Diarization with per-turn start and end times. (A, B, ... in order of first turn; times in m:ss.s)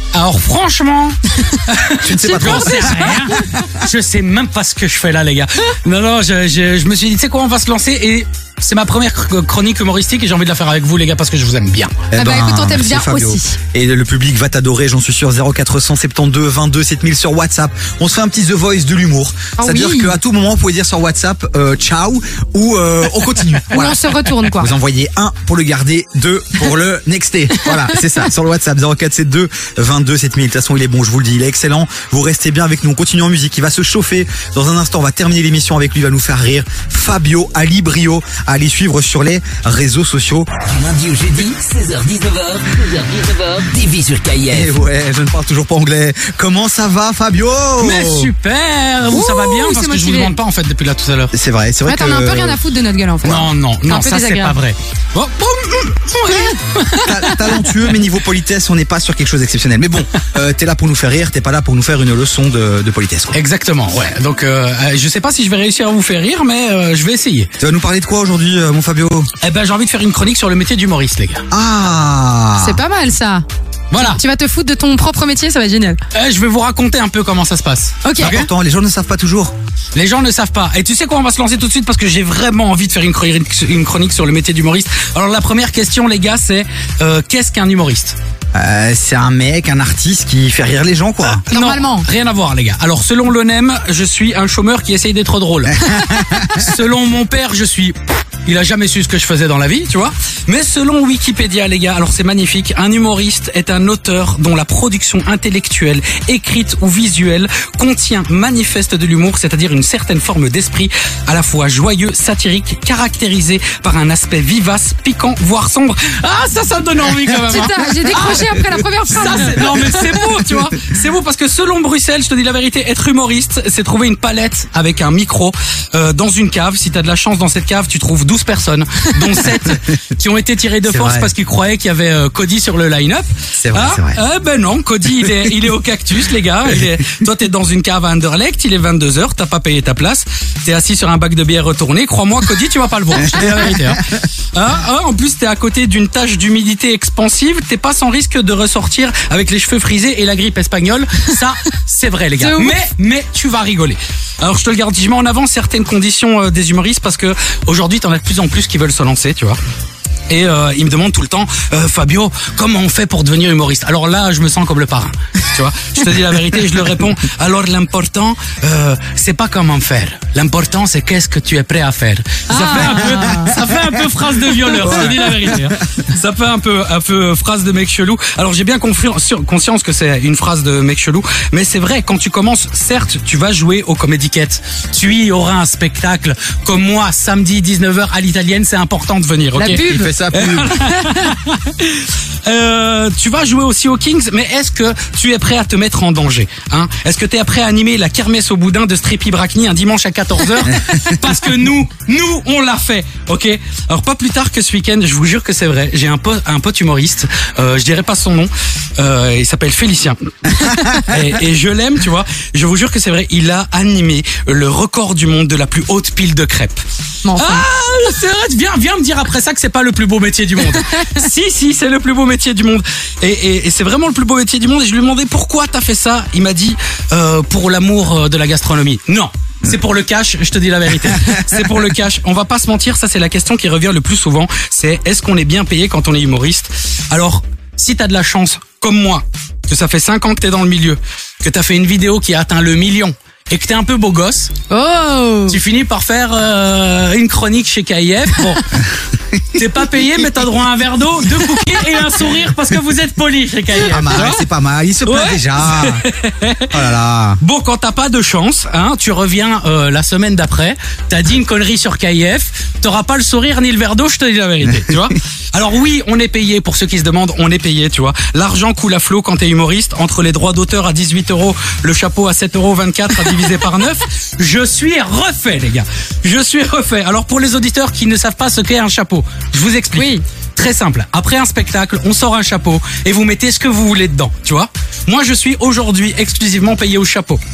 0:00.1-0:12.0 A
0:02.0-0:03.6 B
0:02.3-0:03.1 C
0:12.1-0:40.6 B
0:12.2-0:13.6 C
0:19.6-0:20.2 C
0:23.7-0:24.7 C
0:40.6-0:44.8 D
0:44.5-0:48.3 B
0:47.8-0:51.3 A
0:49.1-0:50.3 C
0:51.3-0:52.6 B
0:51.9-0:54.6 C
0:53.2-0:57.7 A
0:56.9-1:03.4 B
1:03.3-1:07.5 A
1:07.6-1:09.3 B
1:09.4-1:11.4 A
1:11.5-1:12.8 B
1:12.6-1:13.4 C
1:13.9-1:14.2 A
1:14.0-1:16.0 C
1:16.1-1:18.5 A
1:18.0-1:18.4 C
1:18.2-1:19.5 B
1:20.0-1:28.2 A
1:28.6-1:31.4 B
1:31.2-2:24.0 A
1:31.5-1:32.1 C
1:35.7-1:36.6 B
1:57.5-2:00.1 C
2:10.9-2:11.3 B
2:13.6-2:14.2 B
2:24.5-2:39.6 A
2:40.3-3:36.8 A
2:52.5-2:53.6 C
3:09.6-3:10.1 C
3:09.7-3:10.8 B
3:10.8-3:11.3 C
3:37.2-3:37.6 C
3:37.4-4:04.5 A
4:04.7-4:05.6 C
4:05.5-4:08.9 A
4:09.5-4:14.4 A
4:13.8-4:16.0 B
4:15.1-4:16.9 A
4:16.7-4:17.4 B
4:17.4-4:47.4 A
4:40.0-4:40.2 C